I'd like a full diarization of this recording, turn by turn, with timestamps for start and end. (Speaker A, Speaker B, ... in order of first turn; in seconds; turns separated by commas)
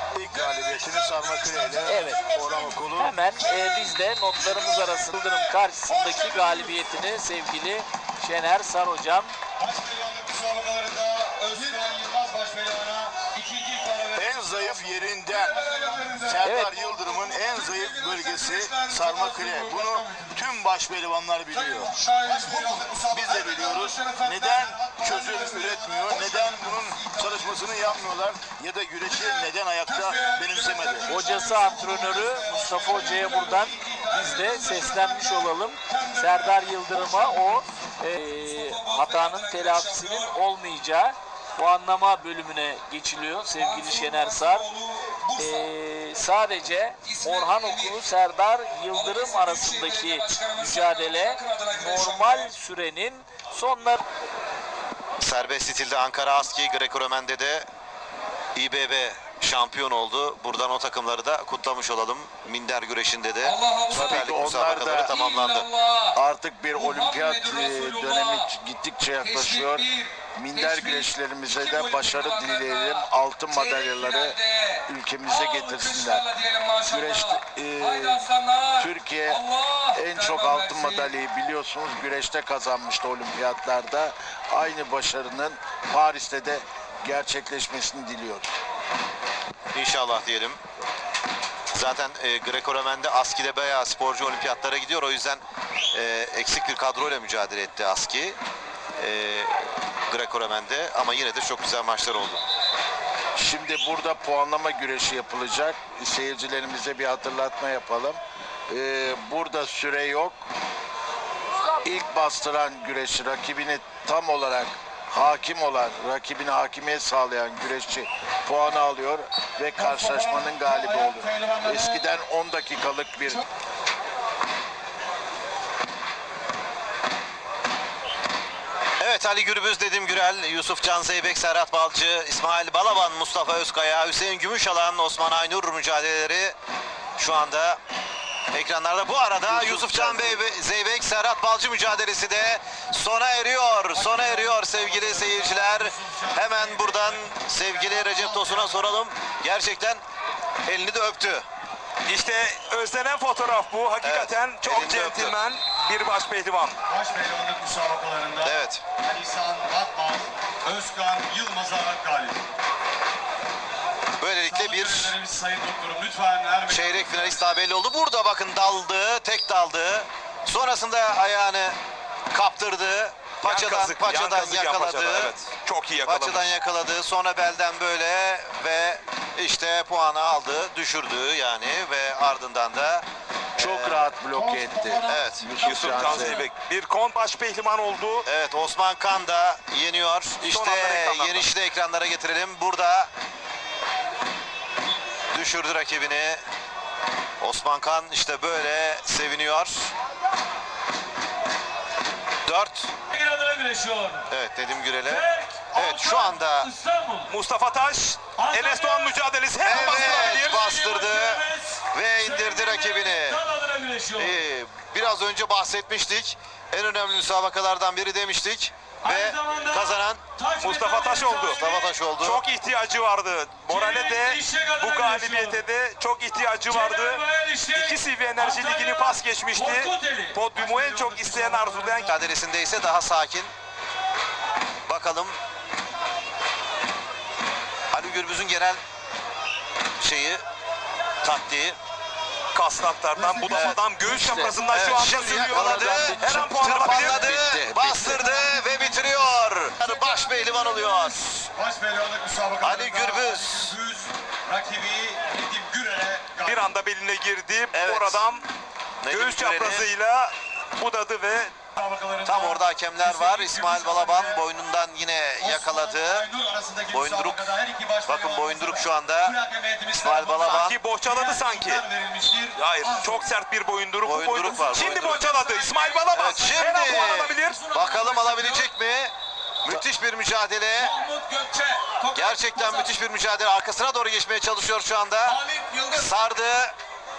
Speaker A: 0.1-3.1, Speaker B: 1.8-2.3, Speaker B: 2.9-9.3, Speaker C: 9.6-14.6, Speaker A: 14.1-31.1, Speaker C: 16.1-16.3, Speaker B: 16.4-16.7, Speaker C: 17.0-20.3, Speaker C: 21.5-27.9, Speaker D: 22.2-22.9, Speaker C: 29.1-34.3, Speaker B: 31.1-44.7, Speaker D: 34.4-35.4, Speaker D: 36.4-37.5, Speaker D: 38.3-40.3, Speaker D: 43.5-45.7, Speaker B: 45.4-54.0, Speaker D: 47.0-48.0, Speaker D: 48.9-52.5, Speaker E: 55.2-57.7, Speaker E: 58.5-65.7, Speaker D: 63.4-64.3, Speaker F: 63.9-65.2, Speaker D: 65.0-66.2, Speaker F: 66.1-76.3, Speaker D: 66.7-68.5, Speaker D: 69.2-81.1, Speaker F: 76.9-88.5, Speaker E: 89.7-90.6, Speaker E: 91.7-95.4, Speaker E: 95.9-98.4, Speaker E: 99.0-102.4, Speaker F: 103.4-108.2, Speaker F: 108.7-110.4, Speaker F: 111.8-123.4, Speaker C: 119.8-122.0, Speaker E: 129.0-136.6, Speaker E: 137.2-137.8, Speaker E: 138.5-150.0, Speaker F: 139.4-140.4, Speaker C: 143.9-148.8, Speaker E: 150.7-151.4, Speaker G: 152.1-156.8, Speaker E: 154.0-155.4, Speaker C: 156.9-162.4, Speaker E: 158.4-158.8, Speaker E: 164.2-165.2, Speaker C: 164.4-167.6, Speaker E: 166.6-171.8, Speaker E: 172.3-175.3, Speaker G: 173.4-176.5, Speaker E: 176.0-183.0, Speaker E: 183.6-184.1, Speaker F: 183.6-186.5, Speaker C: 184.3-185.2, Speaker E: 185.0-185.5, Speaker G: 185.6-188.3, Speaker E: 188.2-193.1, Speaker G: 190.4-191.5, Speaker E: 195.3-196.4, Speaker E: 197.4-199.9, Speaker E: 202.4-202.9, Speaker D: 203.1-204.3, Speaker E: 204.3-206.7, Speaker D: 205.0-207.3, Speaker G: 207.3-210.7, Speaker D: 208.4-214.4, Speaker E: 209.6-213.4, Speaker E: 214.1-220.2, Speaker D: 219.0-222.0, Speaker G: 220.6-221.7, Speaker E: 221.4-222.4, Speaker G: 222.2-232.1, Speaker D: 223.7-225.6, Speaker D: 226.7-232.1, Speaker E: 232.0-233.5, Speaker E: 234.9-235.4, Speaker E: 237.9-238.8, Speaker E: 240.0-240.4, Speaker E: 241.2-241.8, Speaker G: 242.5-247.4, Speaker C: 243.1-243.7, Speaker E: 243.5-243.8, Speaker F: 243.7-248.3, Speaker E: 244.6-251.5, Speaker C: 248.1-249.4, Speaker C: 250.0-256.7, Speaker E: 252.6-253.8, Speaker G: 256.4-258.5, Speaker E: 257.7-258.3, Speaker E: 259.0-259.9, Speaker G: 259.1-261.6, Speaker C: 261.8-264.4, Speaker E: 262.2-266.3, Speaker C: 265.4-270.5, Speaker E: 266.9-267.5, Speaker E: 268.0-269.4, Speaker E: 269.9-270.8, Speaker G: 270.4-271.8, Speaker D: 271.1-271.6, Speaker C: 271.1-273.3, Speaker G: 272.6-277.6, Speaker D: 272.8-273.1, Speaker E: 274.0-275.2, Speaker D: 275.0-278.7, Speaker E: 276.1-280.9, Speaker D: 280.8-282.9, Speaker E: 282.1-285.4, Speaker D: 285.2-286.1, Speaker E: 285.9-286.8